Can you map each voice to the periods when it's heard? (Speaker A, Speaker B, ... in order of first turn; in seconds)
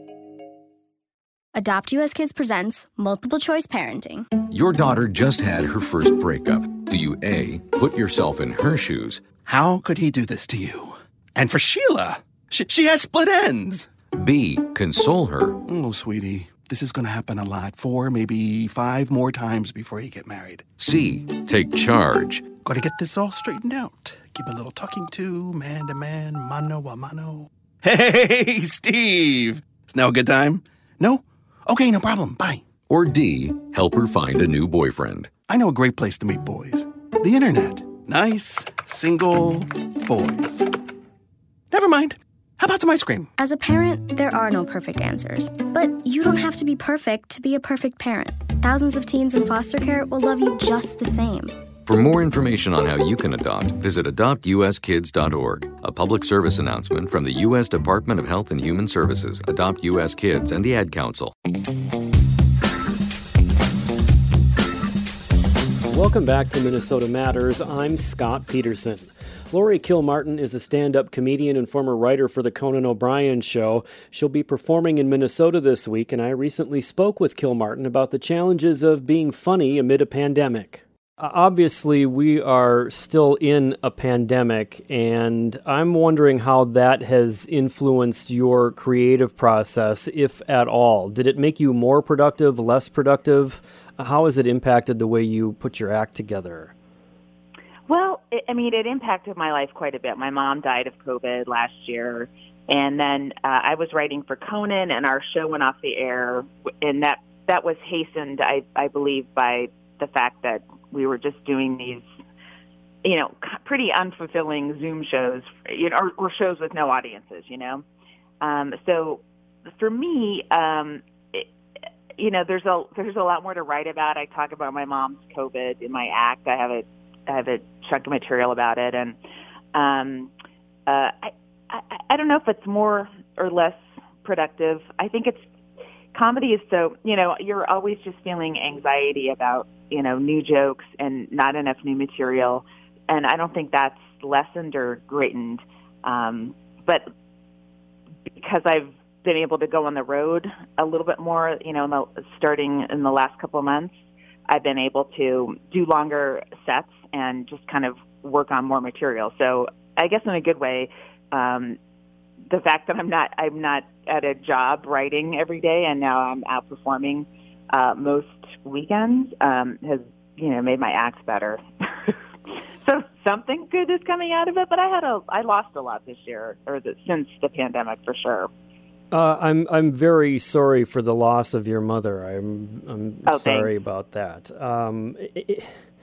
Speaker A: 1.5-4.3, 43.4-51.5
Speaker B: 4.4-9.3, 14.1-15.6, 20.8-22.5, 32.9-35.3, 51.9-61.3
Speaker C: 9.3-13.9, 15.7-20.8, 22.6-32.6, 35.5-40.6, 41.7-43.3
Speaker D: 65.9-96.7, 179.1-185.7
Speaker E: 97.9-112.1, 113.0-117.8, 118.4-121.5, 122.2-129.2, 129.7-130.3, 130.9-135.5, 136.1-147.0, 148.3-153.9, 154.5-161.8, 162.5-178.5, 183.3-183.7